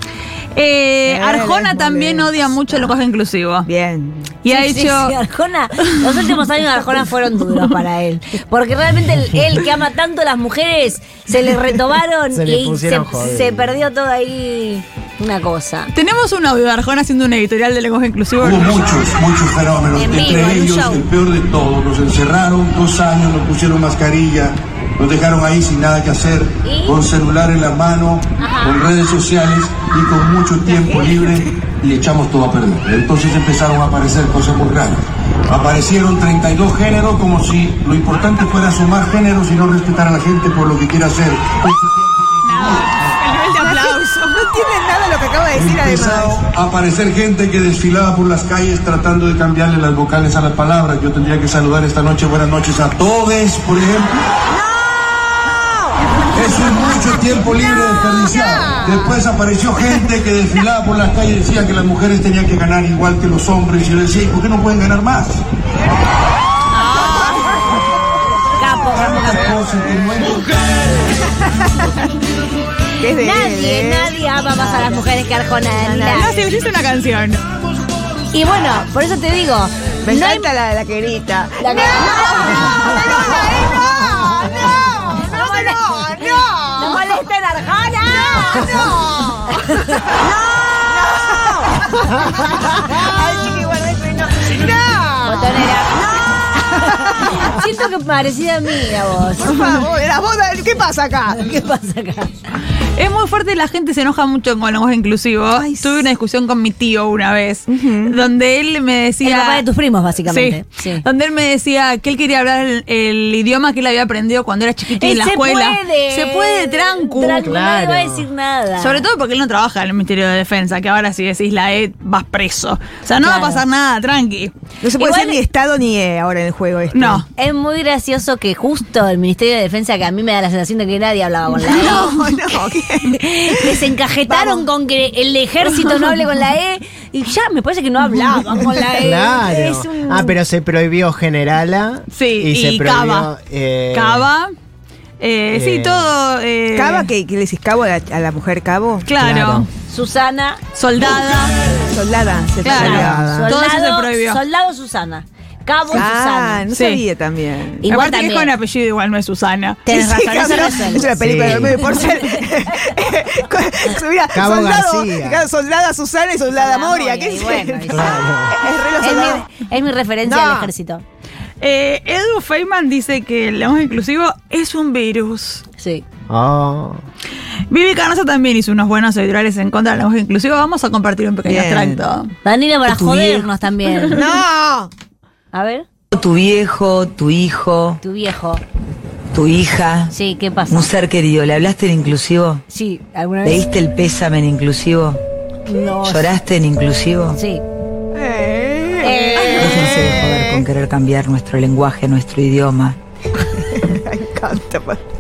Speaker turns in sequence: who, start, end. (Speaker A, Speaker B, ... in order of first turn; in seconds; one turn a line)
Speaker A: 0.5-3.7
Speaker B: 1.1-2.9
Speaker B: 3.6-4.4
Speaker A: 4.4-5.2
Speaker C: 4.5-15.9
Speaker A: 5.8-6.4
Speaker D: 12.3-13.8
Speaker A: 15.9-19.1
Speaker E: 18.4-43.2
Speaker C: 19.9-21.1
Speaker C: 26.6-27.0
Speaker C: 28.4-28.8
Speaker B: 30.7-31.4
Speaker A: 42.4-44.5
Speaker B: 43.6-46.5
Speaker E: 45.5-54.2
Speaker E: 56.3-65.4
Speaker A: 66.7-67.6
Speaker C: 68.6-69.9
Speaker E: 68.9-70.5
Speaker B: 71.2-72.0
Speaker B: 73.0-75.0
Speaker C: 73.1-76.4
Speaker B: 75.7-76.5
Speaker A: 76.1-77.4
Speaker C: 78.3-80.5
Speaker B: 80.0-87.0
Speaker C: 81.6-86.2
Speaker C: 86.7-90.7
Speaker B: 88.1-90.1
Speaker B: 90.9-95.7
Speaker C: 91.3-91.7
Speaker C: 95.2-99.8
Speaker B: 96.8-97.4
Speaker B: 99.4-101.5
Speaker C: 101.3-102.3
Speaker A: 103.0-109.7
Speaker B: 105.5-106.1
Speaker B: 107.7-108.2
Speaker C: 109.2-111.0
Speaker A: 110.2-117.5
Speaker C: 114.9-119.1
Speaker D: 117.5-118.3
Speaker A: 118.8-125.4
Speaker C: 123.2-123.6
Speaker B: 124.8-127.2
Speaker A: 126.9-127.2
Speaker C: 127.3-140.4
Speaker B: 131.5-134.7
Speaker D: 138.9-144.3
Speaker A: 142.1-143.3
Speaker A: 143.9-144.5
Speaker A: 145.2-147.1
Speaker D: 145.5-146.1
Speaker B: 146.7-149.1
Speaker A: 149.1-149.7
Speaker D: 149.2-149.7
Speaker C: 149.9-150.6
Speaker A: 150.7-151.6
Speaker B: 151.9-153.6
Speaker A: 152.6-154.4
Speaker C: 152.6-156.7
Speaker B: 155.9-157.9
Speaker A: 156.7-157.0
Speaker C: 157.8-158.5
Speaker A: 157.9-160.0
Speaker C: 159.9-162.9
Speaker B: 159.9-169.5
Speaker D: 161.2-162.0
Speaker D: 164.3-165.4
Speaker C: 166.5-168.4
Speaker D: 167.9-168.6
Speaker C: 169.0-171.0
Speaker B: 170.2-170.7
Speaker A: 171.6-175.6
Speaker C: 175.8-176.1
Speaker D: 176.3-177.0
Speaker A: 177.7-182.3
Speaker B: 181.4-182.0
Speaker C: 182.4-184.2
Speaker B: 184.1-184.9
Speaker C: 185.5-185.9
Speaker F: 186.1-188.0
Speaker C: 188.0-188.6
Speaker F: 189.3-190.1
Speaker C: 190.1-191.0
Speaker F: 190.7-192.6
Speaker C: 192.7-193.7
Speaker F: 193.4-195.2
Speaker C: 195.7-196.5
Speaker F: 196.0-197.4
Speaker C: 197.3-197.6
Speaker B: 198.1-200.6
Speaker C: 199.0-199.9
Speaker F: 199.6-203.0
Speaker B: 203.4-205.0